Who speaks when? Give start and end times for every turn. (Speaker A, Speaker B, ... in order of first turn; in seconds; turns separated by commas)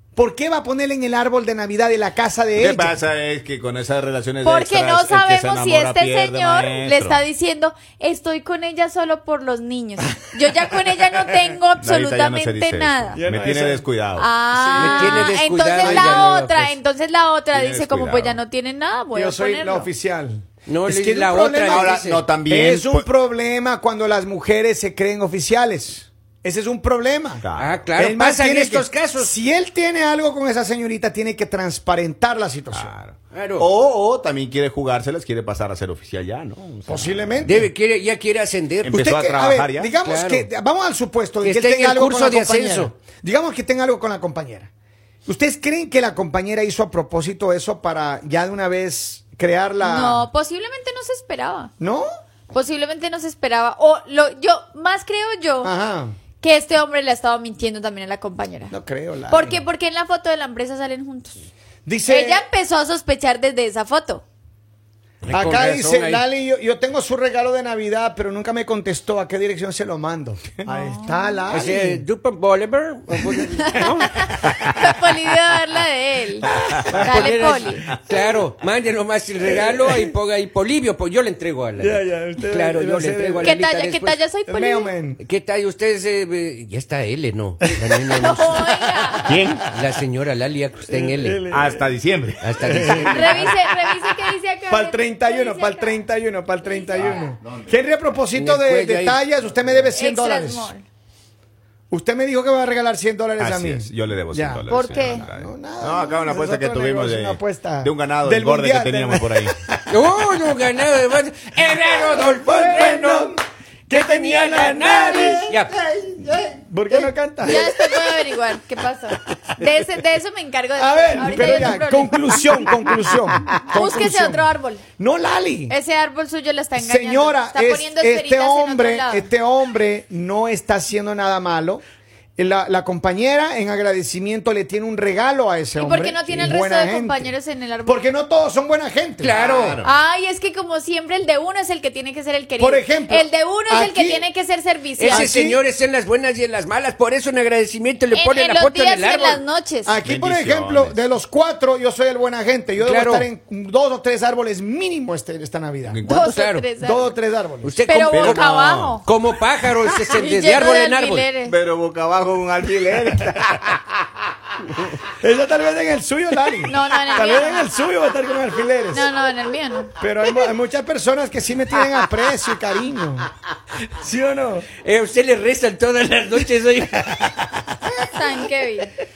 Speaker A: 0.2-3.0, Speaker B: 2.6-7.2, Speaker C: 4.4-13.2, Speaker B: 11.8-14.3, Speaker A: 13.2-13.8, Speaker C: 14.2-19.9, Speaker A: 14.5-16.3, Speaker D: 14.8-16.8, Speaker B: 17.5-18.4, Speaker A: 19.1-27.4, Speaker D: 20.7-22.3, Speaker B: 21.7-23.1, Speaker B: 27.4-27.9, Speaker D: 27.6-29.3, Speaker A: 28.0-32.9, Speaker B: 32.7-37.7, Speaker D: 33.3-33.7, Speaker A: 36.9-37.6, Speaker D: 37.4-39.0, Speaker B: 38.9-39.9, Speaker A: 38.9-44.7, Speaker D: 40.0-40.5, Speaker D: 41.4-42.9, Speaker A: 45.3-50.3, Speaker C: 49.8-51.7, Speaker A: 51.8-52.1, Speaker C: 52.5-55.7, Speaker A: 55.6-56.2, Speaker C: 56.4-58.7, Speaker A: 58.7-59.6, Speaker C: 59.3-61.5, Speaker A: 61.9-62.5, Speaker C: 62.1-64.2, Speaker D: 65.2-66.2, Speaker A: 65.3-72.0, Speaker C: 70.7-71.5, Speaker D: 71.5-74.3, Speaker C: 73.6-78.0, Speaker A: 76.8-77.4, Speaker D: 76.9-84.2, Speaker A: 79.4-80.1, Speaker A: 81.8-83.6, Speaker C: 83.4-84.9, Speaker A: 84.5-85.2, Speaker D: 85.2-88.7, Speaker C: 88.0-89.4, Speaker A: 88.5-89.6, Speaker B: 89.2-89.7, Speaker D: 89.7-91.4, Speaker A: 90.9-91.9, Speaker B: 91.5-93.7, Speaker D: 92.4-93.3, Speaker A: 92.6-93.4, Speaker C: 92.9-96.0, Speaker A: 94.7-100.7, Speaker C: 96.6-97.2, Speaker B: 97.0-97.8, Speaker D: 98.3-99.3, Speaker C: 99.9-100.8, Speaker A: 101.9-109.8, Speaker B: 103.4-109.5, Speaker C: 104.7-105.2, Speaker D: 109.9-113.4, Speaker A: 111.9-115.5, Speaker D: 113.9-115.7, Speaker B: 115.7-116.5, Speaker A: 116.4-118.2, Speaker C: 117.4-122.2, Speaker A: 120.8-125.8, Speaker C: 123.7-124.8, Speaker C: 125.7-129.3, Speaker A: 126.8-131.8, Speaker A: 132.4-137.3, Speaker C: 135.8-138.0, Speaker A: 137.8-139.8, Speaker D: 139.2-139.8, Speaker B: 139.3-139.9, Speaker C: 139.8-145.3, Speaker A: 142.6-144.3, Speaker D: 145.0-149.4, Speaker A: 145.1-145.6, Speaker C: 148.1-150.0, Speaker A: 149.8-156.0, Speaker B: 150.1-151.0, Speaker D: 152.8-153.3, Speaker B: 155.9-156.3, Speaker C: 156.1-157.1, Speaker D: 156.2-156.7, Speaker A: 156.8-157.7, Speaker D: 157.6-161.3, Speaker C: 157.9-159.1, Speaker B: 158.1-159.0, Speaker C: 159.9-161.6, Speaker B: 161.4-164.1, Speaker A: 165.2-169.1, Speaker C: 166.7-167.7, Speaker C: 168.9-169.9, Speaker A: 170.0-173.3, Speaker A: 174.0-174.7, Speaker D: 174.8-177.4, Speaker C: 178.0-178.9